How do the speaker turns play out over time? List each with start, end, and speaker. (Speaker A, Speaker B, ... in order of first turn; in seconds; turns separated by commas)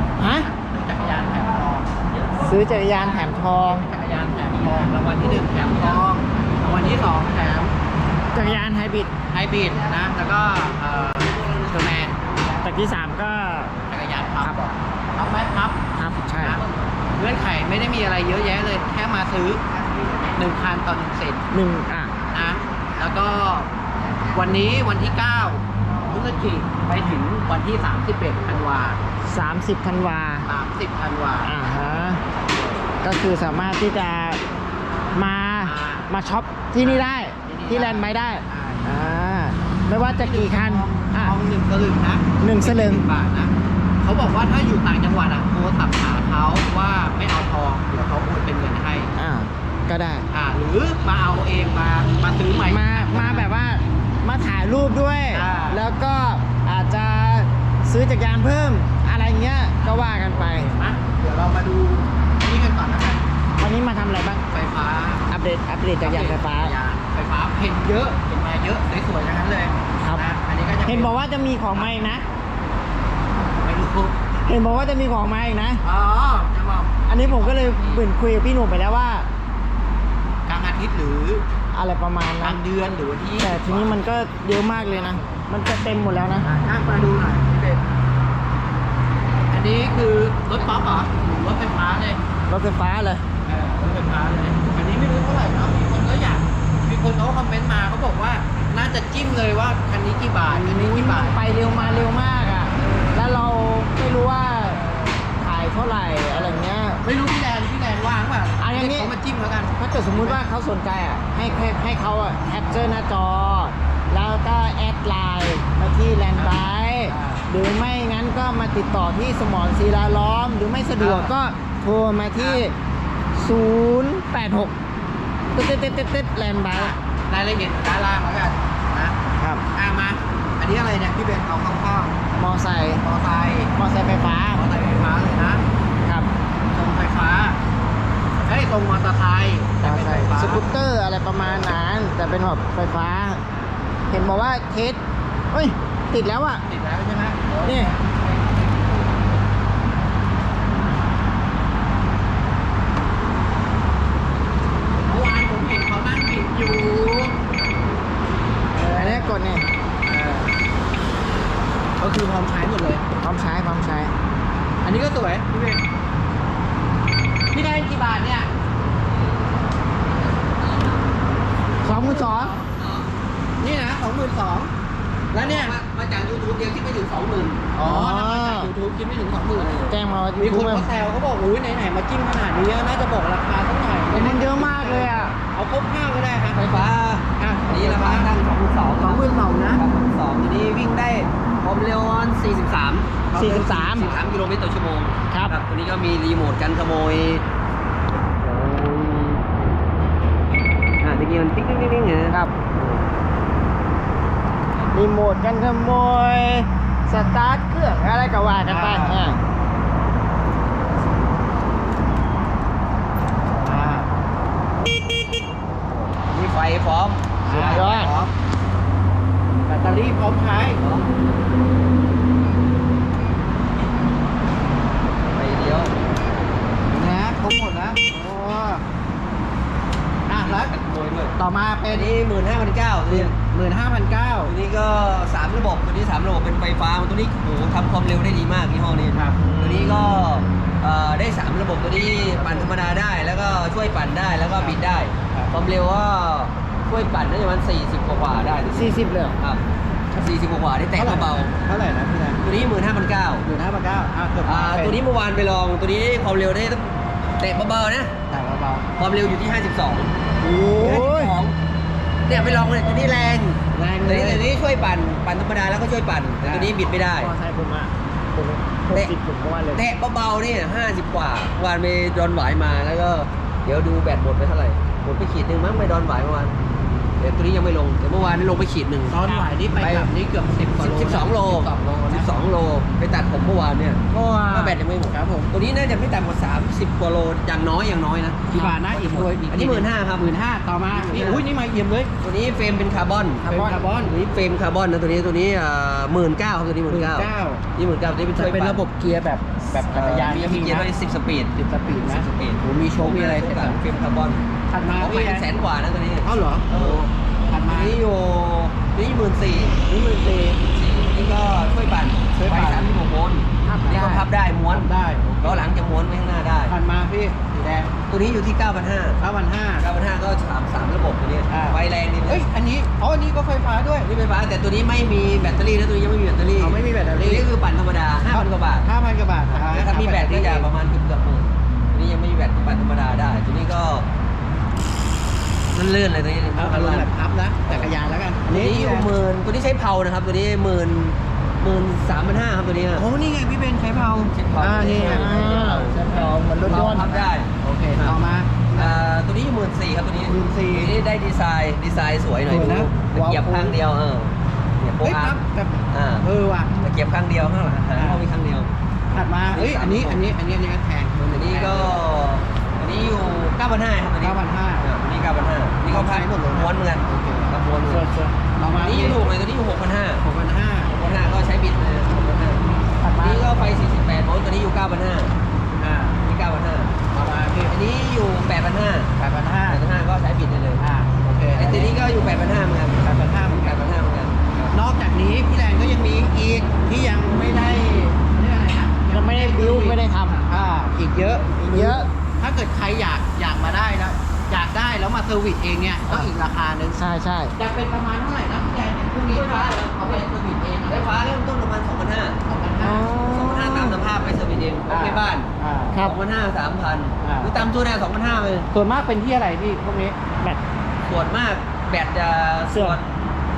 Speaker A: 0.2-0.5, Speaker B: 0.4-1.9, Speaker A: 2.3-3.9, Speaker B: 3.6-7.7, Speaker C: 5.5-5.9, Speaker A: 8.3-9.1, Speaker B: 9.2-12.2, Speaker A: 12.6-13.7, Speaker B: 13.9-15.8, Speaker A: 15.9-16.6, Speaker B: 16.4-19.6, Speaker B: 20.3-21.4, Speaker A: 21.5-22.1, Speaker B: 22.3-23.7, Speaker B: 24.3-29.0, Speaker A: 29.2-30.4, Speaker B: 30.4-31.5, Speaker A: 31.4-32.2, Speaker A: 33.0-34.4, Speaker A: 35.1-41.4, Speaker B: 35.6-36.1, Speaker B: 36.8-39.0, Speaker B: 40.0-49.1, Speaker A: 42.4-43.0, Speaker A: 49.2-50.2, Speaker B: 50.3-53.5, Speaker A: 52.6-60.7, Speaker B: 55.3-55.8, Speaker B: 60.3-63.2, Speaker A: 63.6-64.4, Speaker B: 64.5-65.2, Speaker A: 65.3-66.7, Speaker B: 66.0-71.1, Speaker A: 70.0-70.2, Speaker A: 70.8-72.2, Speaker B: 71.8-72.0, Speaker B: 73.6-74.3, Speaker A: 74.4-75.8, Speaker B: 75.8-78.0, Speaker A: 77.1-79.3, Speaker B: 80.5-81.4, Speaker A: 81.7-82.6, Speaker B: 82.4-84.0, Speaker A: 83.4-86.5, Speaker B: 84.6-85.4, Speaker B: 86.4-87.8, Speaker B: 89.5-92.2, Speaker A: 92.5-93.2, Speaker B: 93.4-103.2, Speaker A: 100.5-104.8, Speaker B: 104.8-105.2, Speaker A: 105.4-107.0, Speaker B: 106.3-110.4, Speaker A: 108.6-109.1, Speaker A: 109.8-122.7, Speaker B: 116.3-117.5, Speaker B: 121.0-121.3, Speaker B: 122.4-122.6, Speaker A: 123.3-124.7, Speaker A: 125.5-126.9, Speaker B: 126.7-129.2, Speaker A: 129.4-129.6, Speaker B: 129.7-132.2, Speaker A: 132.3-133.0, Speaker B: 133.0-133.7, Speaker A: 133.8-134.6, Speaker B: 134.5-135.6, Speaker A: 136.0-136.3, Speaker B: 136.7-137.6, Speaker B: 138.4-140.6, Speaker A: 139.8-143.4, Speaker A: 144.1-146.6, Speaker B: 146.6-148.2, Speaker A: 147.6-147.9, Speaker B: 155.0-157.4, Speaker B: 158.7-159.4, Speaker A: 158.9-159.7, Speaker B: 160.0-160.6, Speaker B: 162.0-163.0, Speaker A: 163.2-164.1, Speaker B: 164.8-165.8, Speaker B: 167.5-168.5, Speaker C: 169.1-171.2, Speaker A: 171.8-172.5, Speaker C: 171.9-173.1, Speaker B: 171.9-172.4, Speaker B: 173.6-174.7, Speaker B: 175.3-175.8, Speaker C: 175.3-177.7, Speaker B: 177.7-179.7, Speaker A: 177.8-178.7, Speaker C: 179.5-180.0, Speaker A: 179.9-180.9, Speaker B: 180.4-188.3, Speaker A: 184.1-185.3, Speaker C: 186.5-197.4, Speaker B: 189.0-189.8, Speaker B: 193.3-194.2, Speaker A: 193.3-194.1, Speaker A: 195.3-195.6, Speaker C: 198.3-199.4, Speaker C: 201.0-203.0, Speaker A: 202.3-202.6, Speaker A: 204.9-209.4, Speaker B: 208.6-209.2, Speaker B: 213.6-214.1, Speaker C: 215.9-218.3, Speaker B: 217.5-218.3, Speaker A: 217.6-218.1, Speaker B: 219.7-220.8, Speaker C: 220.8-221.1, Speaker C: 225.3-225.9, Speaker B: 226.9-228.8, Speaker B: 230.3-230.7, Speaker C: 230.3-231.3, Speaker B: 231.4-232.1, Speaker C: 231.9-233.3, Speaker B: 233.1-234.5, Speaker C: 234.4-251.5, Speaker B: 239.1-239.5, Speaker B: 242.3-242.7, Speaker B: 245.3-245.5, Speaker A: 248.7-249.4, Speaker B: 250.9-252.4, Speaker C: 252.4-253.4, Speaker B: 253.4-255.0, Speaker C: 254.4-258.1, Speaker B: 258.3-258.9, Speaker C: 259.0-260.1, Speaker A: 260.4-261.3, Speaker C: 260.7-261.6, Speaker C: 262.2-267.3, Speaker B: 263.7-264.5, Speaker B: 266.4-266.7, Speaker A: 267.1-269.8, Speaker C: 269.7-276.5, Speaker C: 277.2-279.2, Speaker B: 279.1-282.3, Speaker C: 279.8-280.1, Speaker C: 280.8-290.3, Speaker B: 284.1-285.5, Speaker B: 288.5-292.1, Speaker C: 290.9-291.4, Speaker C: 292.2-298.8, Speaker B: 293.4-294.1, Speaker A: 293.4-293.8, Speaker B: 296.9-297.6, Speaker B: 298.3-300.9, Speaker C: 299.7-301.5, Speaker B: 301.5-303.8, Speaker C: 302.1-307.1, Speaker B: 304.7-305.5, Speaker B: 306.2-308.0, Speaker C: 307.6-310.0, Speaker B: 309.9-310.6, Speaker C: 310.5-314.9, Speaker B: 312.3-312.9, Speaker A: 313.6-314.2, Speaker B: 314.7-315.7, Speaker C: 315.4-316.7, Speaker B: 316.7-317.9, Speaker C: 318.1-319.2, Speaker B: 319.2-319.9, Speaker C: 319.8-322.4, Speaker B: 321.5-324.1, Speaker C: 324.0-328.9, Speaker B: 326.6-327.5, Speaker B: 328.2-330.7, Speaker C: 329.5-334.1, Speaker C: 335.7-337.1, Speaker B: 336.6-339.1, Speaker C: 338.5-343.1, Speaker B: 342.9-348.9, Speaker C: 344.3-346.1, Speaker A: 344.8-347.1, Speaker C: 346.6-348.2, Speaker C: 348.7-355.4, Speaker B: 350.2-350.9, Speaker B: 352.5-353.8, Speaker B: 355.0-356.7, Speaker C: 355.9-356.2, Speaker C: 356.8-358.7, Speaker B: 357.9-358.2, Speaker B: 359.1-362.0, Speaker C: 359.5-360.2, Speaker C: 361.2-368.1, Speaker B: 364.2-364.9, Speaker B: 365.9-369.3, Speaker C: 368.8-370.2, Speaker B: 370.2-370.9, Speaker C: 370.9-372.6, Speaker B: 373.0-373.6, Speaker C: 373.2-375.3, Speaker B: 375.7-376.2, Speaker C: 376.1-376.9, Speaker B: 377.1-377.7, Speaker C: 377.7-379.1, Speaker B: 379.2-379.8, Speaker C: 379.7-380.8, Speaker B: 380.8-381.9, Speaker C: 381.5-384.7, Speaker B: 383.0-384.0, Speaker B: 384.7-401.1, Speaker A: 389.1-390.4, Speaker A: 391.5-392.1, Speaker A: 397.0-397.5, Speaker C: 399.2-400.3, Speaker C: 400.9-402.4, Speaker B: 402.4-403.1, Speaker A: 402.8-404.0, Speaker C: 403.2-408.7, Speaker B: 404.9-406.0, Speaker B: 407.2-407.6, Speaker B: 408.7-410.2, Speaker C: 411.0-413.0, Speaker A: 412.7-413.0